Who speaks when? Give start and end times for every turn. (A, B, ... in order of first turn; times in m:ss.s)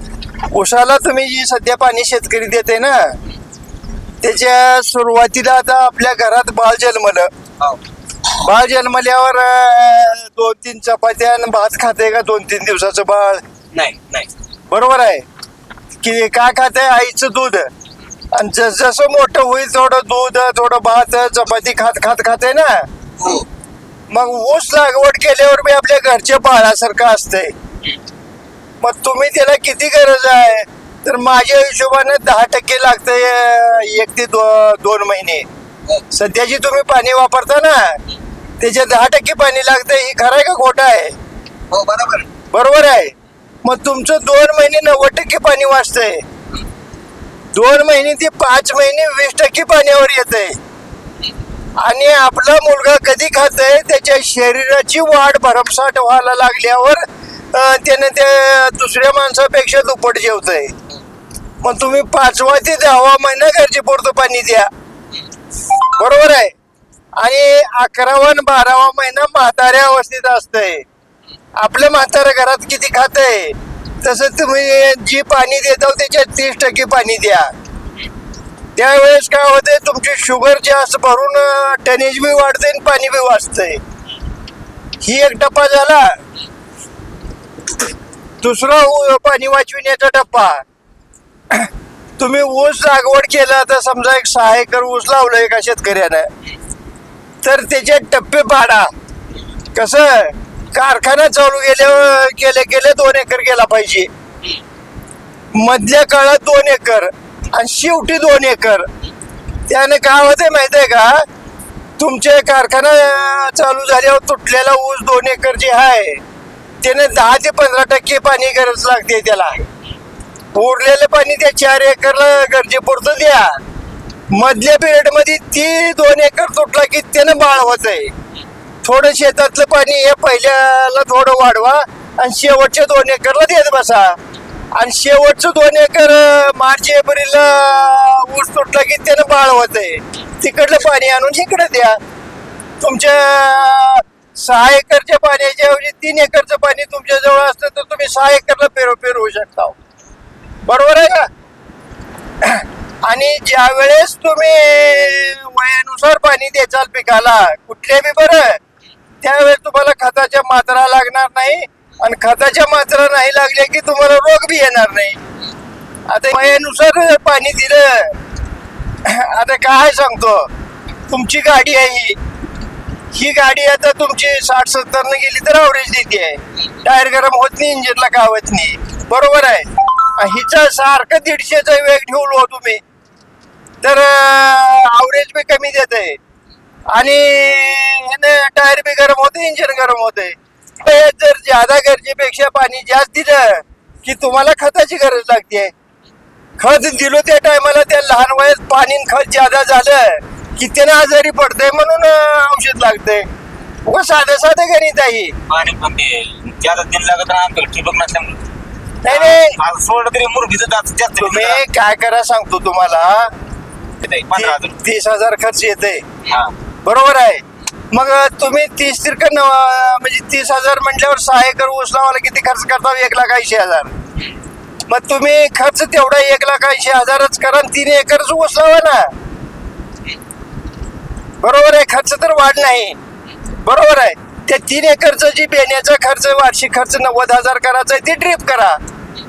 0:00.5-0:03.2 A
0:04.2-0:07.3 A
0:08.3-0:13.4 A
0:13.7-0:14.3 B
0:14.7-0:15.2 A
0:16.0-0:17.7 A
0:18.3-0:22.9 A
0:23.2-0:23.5 B
0:24.1-0:27.5 A
0:28.8-0:35.5 A
0:36.1-0:38.0 A
0:38.6-0:41.2 A
0:41.7-0:42.3 B
0:42.5-0:46.2 A
0:47.5-0:50.6 A
0:51.8-1:00.7 A
1:01.6-1:04.7 A
1:06.0-1:06.6 A
1:07.2-1:10.8 A
1:11.6-1:17.5 A
1:18.8-1:23.8 A
1:25.0-1:26.2 A
1:28.4-1:30.6 A
1:31.5-1:36.3 A
1:37.4-1:38.9 A
1:39.7-1:44.1 A
1:45.5-1:48.9 A
1:49.7-1:51.2 A
1:52.0-1:56.2 A
1:56.8-1:59.7 A
2:00.5-2:03.6 A
2:04.3-2:08.1 A
2:08.8-2:14.2 A
2:14.7-2:22.0 A
2:22.8-2:29.8 A
2:30.6-2:31.3 A
2:32.4-2:38.6 A
2:39.2-2:45.2 A
2:46.1-2:48.2 A
2:49.0-2:50.5 A
2:51.1-2:52.2 A
2:53.1-3:02.8 A
3:03.8-3:06.2 A
3:06.9-3:15.7 A
3:16.6-3:23.3 A
3:23.8-3:25.3 A
3:25.5-3:28.4 B
3:29.0-3:29.6 A
3:29.1-3:31.6 B
3:31.2-3:33.3 A
3:34.0-3:34.8 B
3:34.3-3:36.0 A
3:36.3-3:36.5 B
3:36.8-3:43.9 A
3:44.9-3:49.1 A
3:51.4-3:53.0 A
3:53.6-3:58.8 A